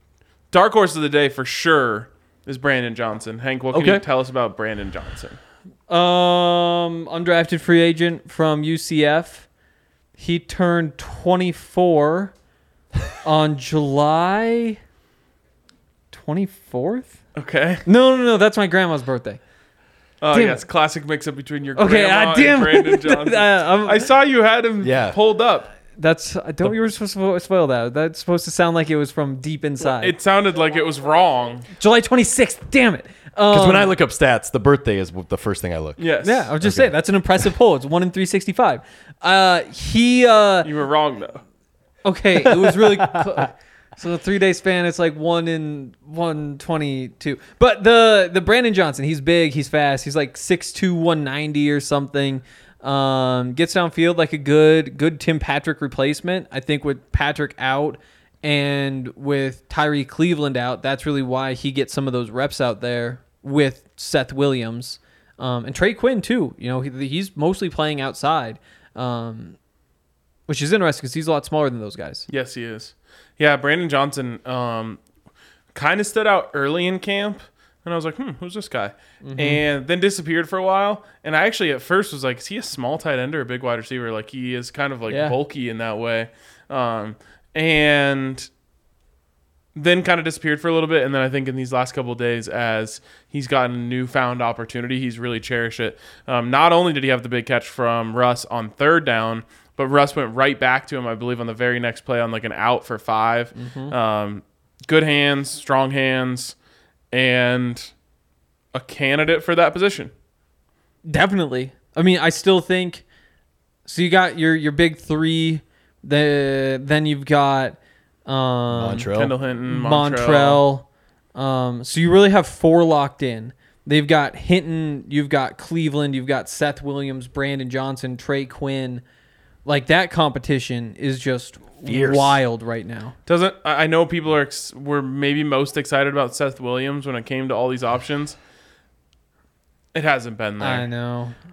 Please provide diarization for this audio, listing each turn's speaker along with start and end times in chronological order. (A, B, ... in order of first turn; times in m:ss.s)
0:00.5-0:05.4 A
0:03.7-0:04.0 B
0:05.9-0:09.5 C
0:10.2-0:12.3 C
0:13.2-0:14.8 C
0:16.1-0:17.2 C
0:17.3-0:17.8 A
0:17.8-0:19.4 C
0:20.2-0:25.7 A
0:20.3-0:20.6 C
0:21.8-0:24.1 C
0:24.8-0:25.2 B
0:26.0-0:30.2 C
0:29.8-0:31.7 A
0:31.8-0:33.9 C
0:33.5-0:36.0 B
0:36.0-0:36.5 A
0:36.2-0:40.7 C
0:36.6-0:36.9 B
0:40.6-0:41.4 A
0:42.0-1:09.6 C
0:42.6-0:43.2 B
1:10.5-1:12.2 C
1:12.3-1:15.0 A
1:15.7-1:28.5 A
1:19.2-1:19.6 C
1:25.1-1:25.4 C
1:29.7-1:46.6 A
1:43.5-1:43.9 C
1:47.1-1:47.9 A
1:48.7-1:50.1 A
1:51.1-1:53.0 C
1:53.8-1:59.1 C
1:58.7-1:59.3 B
1:59.1-2:00.6 A
1:59.7-2:09.0 C
2:09.6-2:13.2 C
2:11.8-2:12.4 B
2:13.3-2:18.4 A
2:19.9-2:20.9 A
2:20.6-2:21.4 C